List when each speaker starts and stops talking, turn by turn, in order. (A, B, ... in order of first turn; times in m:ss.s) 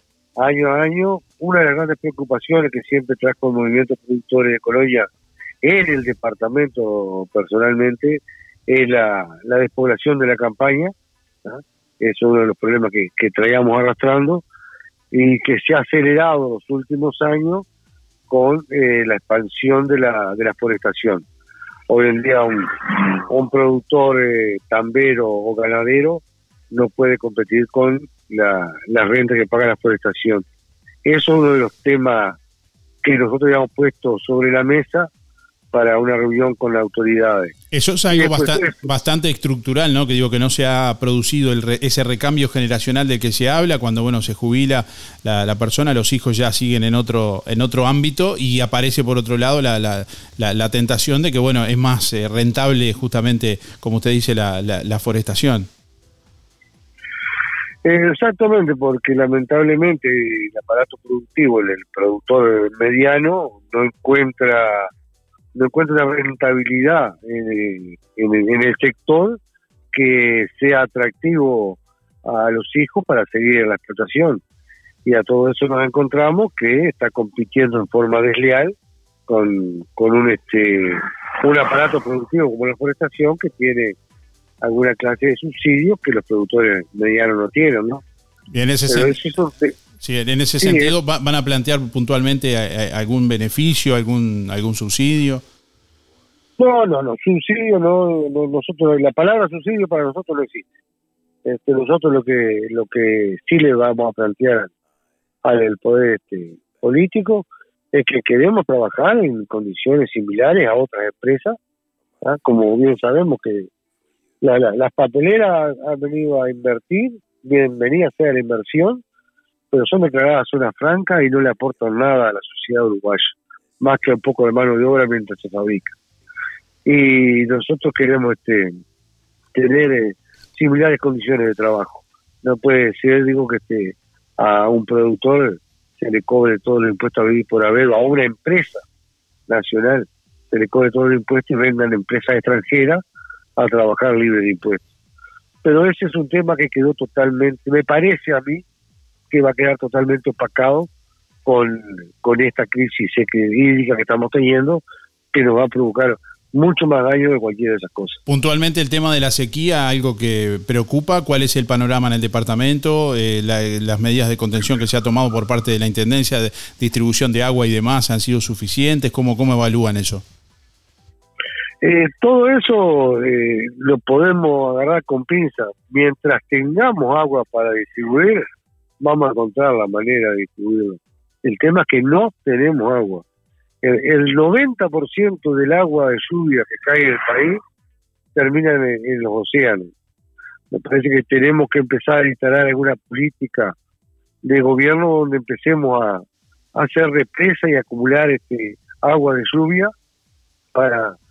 0:00.4-0:05.1 A
0:05.6-0:10.9 A
0:11.4-0:14.4 A
0:15.1-0:17.6 A
0:18.3-0:21.2 A
0:21.9-0:30.4 A
0:31.0-0:32.4 A
0:33.0-0:35.1 A
0:35.7-0:37.5 A
0:37.7-0:55.7 B
0:38.1-0:38.8 A
0:57.8-1:04.9 A
1:05.6-1:09.4 A
1:09.9-1:14.4 A
1:15.1-1:18.7 A
1:19.3-1:24.0 A
1:24.6-1:28.0 A
1:28.5-1:29.2 B
1:28.9-1:29.7 A
1:30.0-1:35.4 B
1:30.6-1:30.9 A
1:36.6-1:40.6 A
1:41.5-1:44.7 A
1:45.4-1:51.6 A
1:52.2-1:53.7 A
1:54.4-1:59.0 A
1:59.7-2:05.9 A
2:06.9-2:08.8 A
2:09.6-2:18.8 A
2:19.5-2:23.0 A
2:23.6-2:24.8 A
2:25.6-2:28.6 A
2:29.3-2:30.9 A
2:31.5-2:34.8 A
2:35.3-2:38.2 A
2:38.3-2:50.2 B
2:51.8-2:58.5 A
2:59.0-3:03.2 A
3:03.8-3:07.6 A
3:08.4-3:09.9 A
3:10.7-3:13.7 A
3:14.4-3:16.2 A
3:16.8-3:19.9 A
3:20.8-3:21.2 A